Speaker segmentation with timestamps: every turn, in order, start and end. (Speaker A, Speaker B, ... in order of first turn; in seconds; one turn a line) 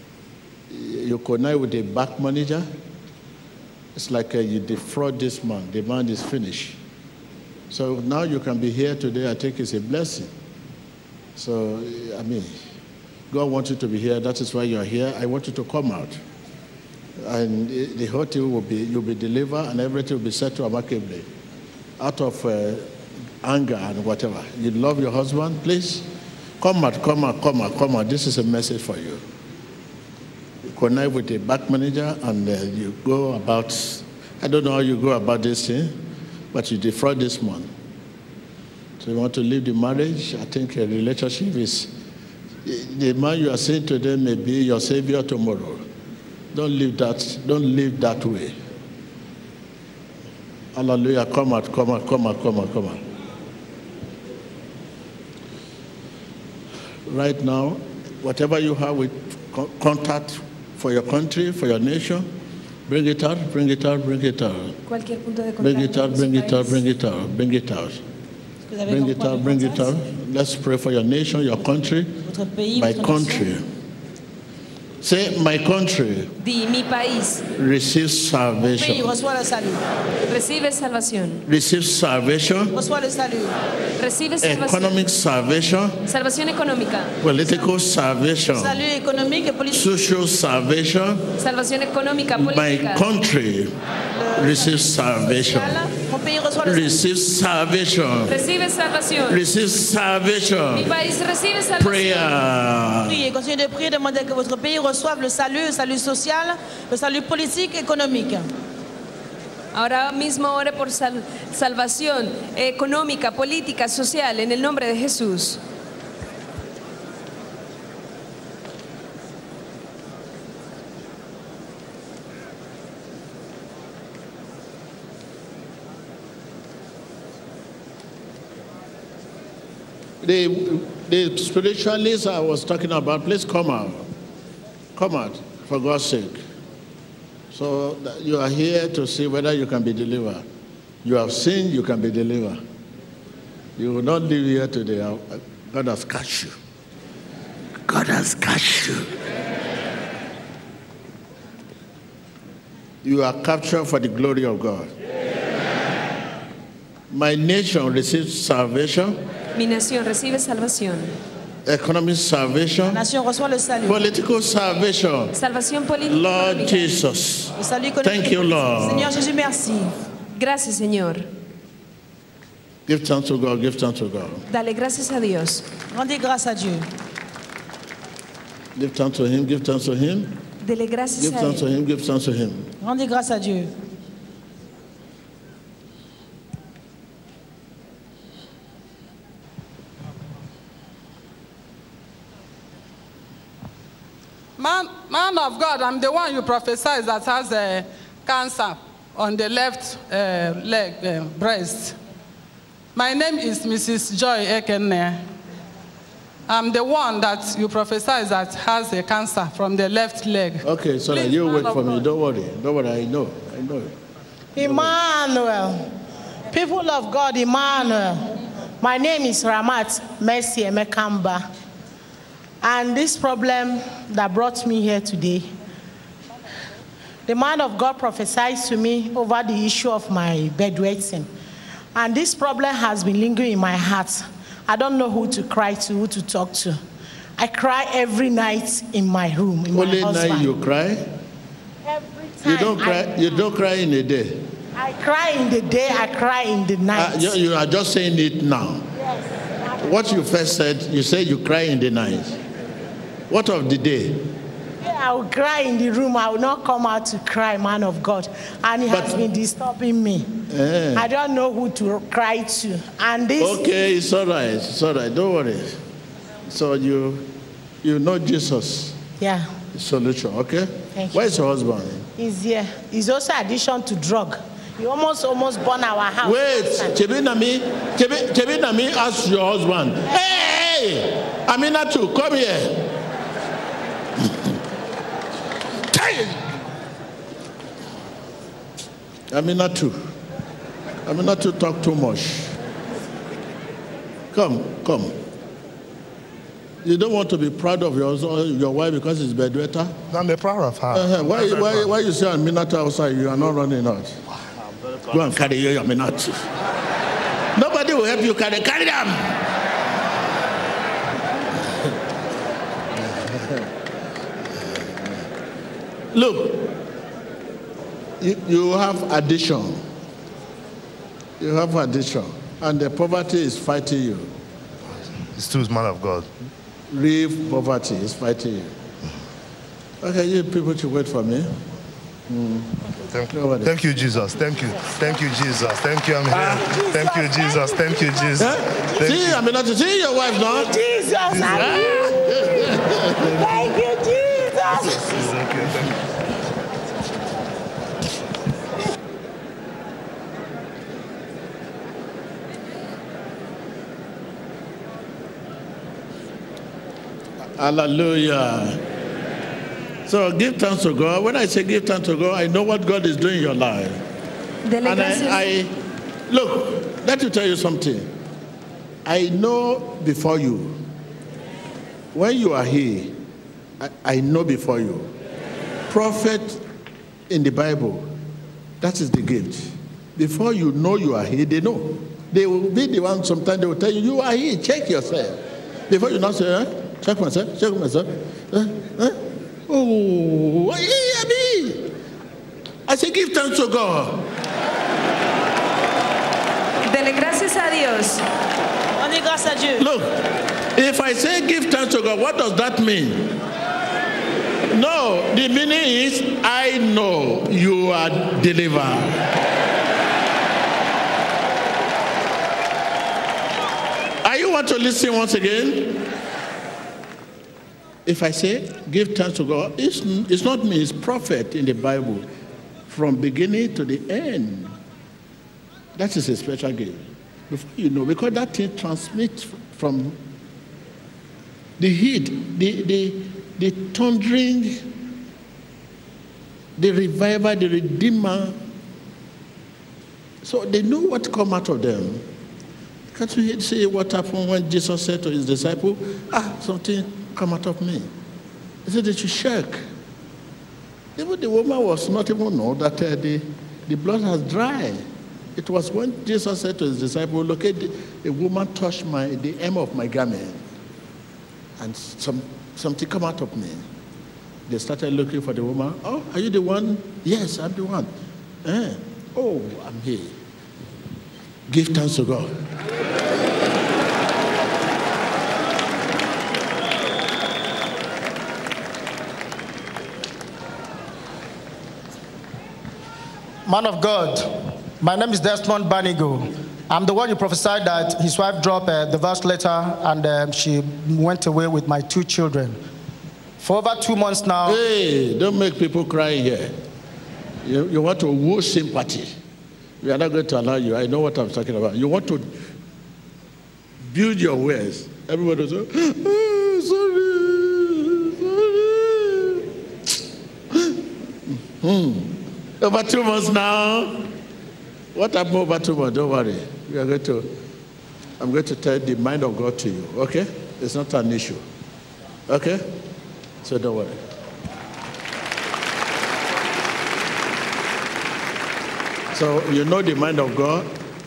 Speaker A: 0.7-2.6
Speaker A: 3.9-6.8
Speaker A: 7.7-10.3
Speaker A: 11.4-12.6
Speaker A: 13.3-16.2
Speaker A: 17.2-21.3
Speaker A: 22.0-22.9
Speaker A: 23.4-26.0
Speaker A: 26.6-29.2
Speaker A: 30.7-35.9
Speaker A: 36.5-37.7
Speaker A: 39.0-41.9
Speaker A: 42.6-45.8
Speaker A: 46.5-48.5
Speaker A: 50.7-53.0
Speaker A: 57.1-62.3
Speaker A: 62.9-64.8
Speaker B: 64.9-66.8
Speaker A: 65.6-68.0
Speaker C: 68.7-70.0
Speaker A: 68.9-72.2
Speaker C: 72.2-73.4
Speaker A: 72.8-73.6
Speaker A: 75.0-76.3
Speaker B: 76.4-77.4
Speaker A: 77.6-79.1
Speaker C: 78.6-79.8
Speaker B: 80.3-81.4
Speaker A: 81.5-82.7
Speaker C: 82.7-83.5
Speaker B: 84.0-85.0
Speaker A: 84.4-86.0
Speaker B: 86.0-87.1
Speaker A: 87.2-88.8
Speaker C: 88.5-89.8
Speaker A: 89.7-91.2
Speaker B: 91.4-93.0
Speaker A: 92.3-93.7
Speaker C: 94.1-96.9
Speaker A: 94.3-95.8
Speaker A: 96.6-98.3
Speaker B: 98.3-99.4
Speaker A: 99.3-100.9
Speaker B: 100.7-102.3
Speaker A: 101.8-103.2
Speaker C: 103.1-108.4
Speaker B: 109.7-115.6
Speaker A: 130.2-134.1
Speaker A: 134.9-136.4
Speaker A: 137.5-140.4
Speaker A: 141.0-142.6
Speaker A: 143.8-146.5
Speaker A: 147.9-149.1
Speaker A: 153.0-154.9
Speaker A: 157.1-159.2
Speaker B: 159.5-161.1
Speaker A: 161.7-163.0
Speaker C: 162.9-164.0
Speaker A: 163.8-165.3
Speaker B: 165.3-166.9
Speaker A: 166.1-169.1
Speaker C: 167.6-169.9
Speaker B: 170.3-171.2
Speaker A: 172.9-174.4
Speaker B: 174.5-175.6
Speaker C: 175.9-176.8
Speaker A: 178.8-180.3
Speaker B: 180.6-181.7
Speaker A: 181.2-182.7
Speaker C: 182.8-183.7
Speaker D: 194.6-202.0
Speaker D: 202.9-205.2
Speaker D: 206.5-212.0
Speaker A: 210.6-213.9
Speaker E: 214.6-215.8
Speaker A: 214.6-214.9
Speaker E: 216.5-221.4
Speaker E: 222.6-225.5
Speaker E: 227.3-231.3
Speaker E: 231.9-236.8
Speaker E: 237.4-240.5
Speaker A: 239.7-241.1
Speaker E: 241.8-243.4
Speaker A: 242.4-244.4
Speaker E: 244.8-247.3
Speaker A: 246.9-248.8
Speaker E: 249.0-249.9
Speaker A: 249.8-252.4
Speaker A: 253.3-254.2
Speaker E: 254.8-260.3
Speaker A: 258.9-259.1
Speaker A: 260.5-261.1
Speaker E: 260.9-263.6
Speaker A: 263.4-265.8
Speaker A: 266.5-267.3
Speaker A: 267.8-269.0
Speaker E: 269.2-269.5
Speaker A: 269.7-272.1
Speaker E: 270.9-271.3
Speaker E: 272.2-276.9
Speaker A: 276.2-282.9
Speaker A: 285.9-286.4
Speaker A: 289.3-290.0
Speaker A: 291.1-292.5
Speaker A: 294.3-295.1
Speaker A: 296.8-299.9
Speaker F: 300.1-301.9
Speaker A: 300.9-304.2
Speaker A: 305.1-306.5
Speaker A: 307.6-309.4
Speaker A: 313.0-313.7
Speaker A: 316.1-316.7
Speaker A: 318.2-319.8
Speaker A: 321.4-324.3
Speaker F: 325.3-326.3
Speaker A: 326.9-328.8
Speaker A: 330.0-331.5
Speaker A: 332.3-332.7
Speaker F: 333.1-339.4
Speaker A: 333.3-333.7
Speaker E: 336.3-338.4
Speaker A: 338.4-343.4
Speaker E: 340.2-345.1
Speaker F: 341.3-342.0
Speaker F: 343.5-343.7
Speaker F: 344.7-346.0
Speaker A: 357.6-358.8
Speaker A: 360.1-364.0
Speaker B: 364.6-365.5
Speaker A: 364.8-365.7
Speaker A: 366.3-368.1
Speaker A: 369.0-370.8
Speaker A: 372.1-373.2
Speaker A: 373.8-375.1
Speaker A: 375.9-376.6
Speaker A: 377.3-378.1
Speaker A: 378.8-391.9
Speaker A: 392.9-394.2
Speaker B: 396.8-398.2
Speaker C: 398.9-399.8
Speaker A: 399.8-400.1
Speaker A: 400.8-403.3
Speaker A: 404.7-409.2
Speaker A: 414.2-416.0
Speaker A: 418.0-422.3
Speaker A: 422.9-424.7
Speaker A: 425.9-430.2
Speaker A: 431.8-434.9
Speaker A: 436.8-438.6
Speaker A: 440.4-442.2
Speaker A: 443.1-448.1
Speaker A: 448.8-449.8
Speaker A: 451.2-455.0
Speaker A: 455.6-460.6
Speaker A: 461.8-463.9
Speaker A: 464.7-468.1
Speaker A: 468.6-470.4
Speaker A: 471.7-472.5
Speaker G: 483.6-492.8
Speaker G: 493.6-494.8
Speaker A: 494.6-496.7
Speaker A: 497.6-499.3
Speaker A: 500.0-502.6
Speaker A: 504.1-509.6
Speaker A: 510.7-511.0
Speaker A: 511.5-514.3
Speaker A: 515.1-517.5
Speaker A: 518.4-521.6
Speaker A: 522.5-522.8
Speaker A: 523.6-524.2
Speaker A: 529.3-530.9